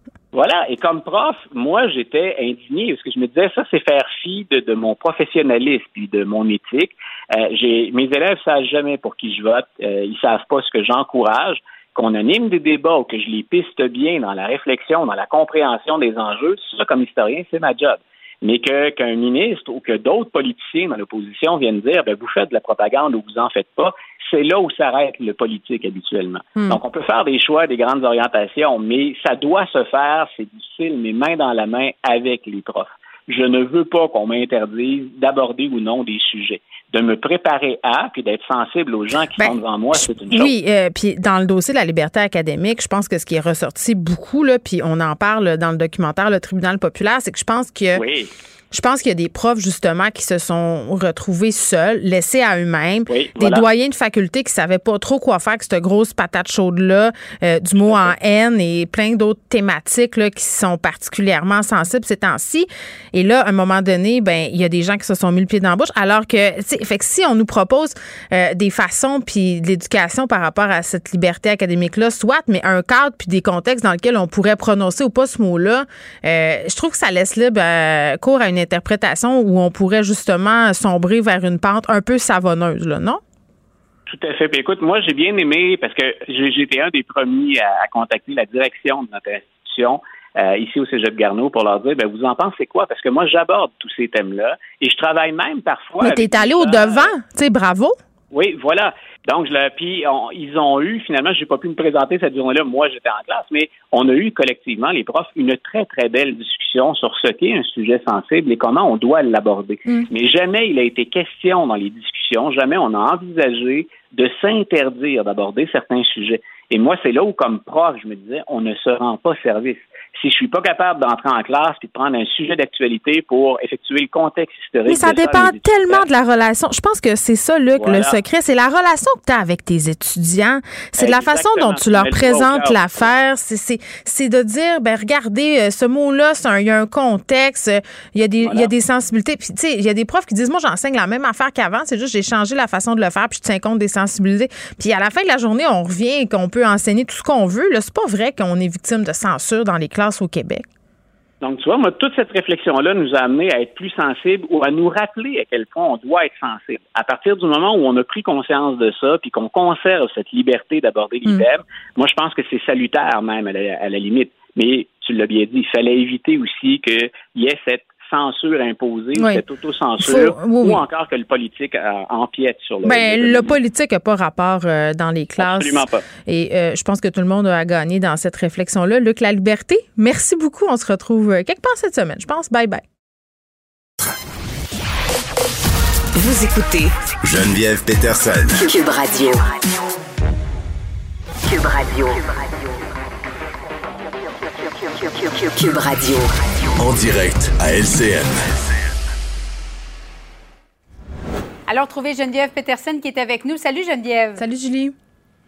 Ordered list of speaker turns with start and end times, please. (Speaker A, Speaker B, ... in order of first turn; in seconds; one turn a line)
Speaker A: 0.3-40.5
Speaker B: 40.3-48.0
Speaker A: 48.0-48.3
Speaker B: 48.7-83.2
Speaker A: 53.1-53.6
Speaker A: 57.8-58.1
Speaker A: 84.1-97.2
Speaker B: 96.0-98.0
Speaker A: 98.3-126.1
Speaker B: 124.9-150.7
Speaker A: 127.8-128.2
Speaker A: 131.0-133.1
Speaker A: 138.4-138.7
Speaker A: 151.4-173.6
Speaker B: 169.2-169.4
Speaker B: 170.0-170.8
Speaker B: 172.8-182.8
Speaker A: 175.4-176.1
Speaker C: 186.2-186.9
Speaker D: 187.2-188.6
Speaker C: 188.6-189.7
Speaker C: 191.4-192.7
Speaker C: 195.0-196.3
Speaker D: 196.8-198.5
Speaker E: 201.7-204.4
Speaker B: 204.4-204.9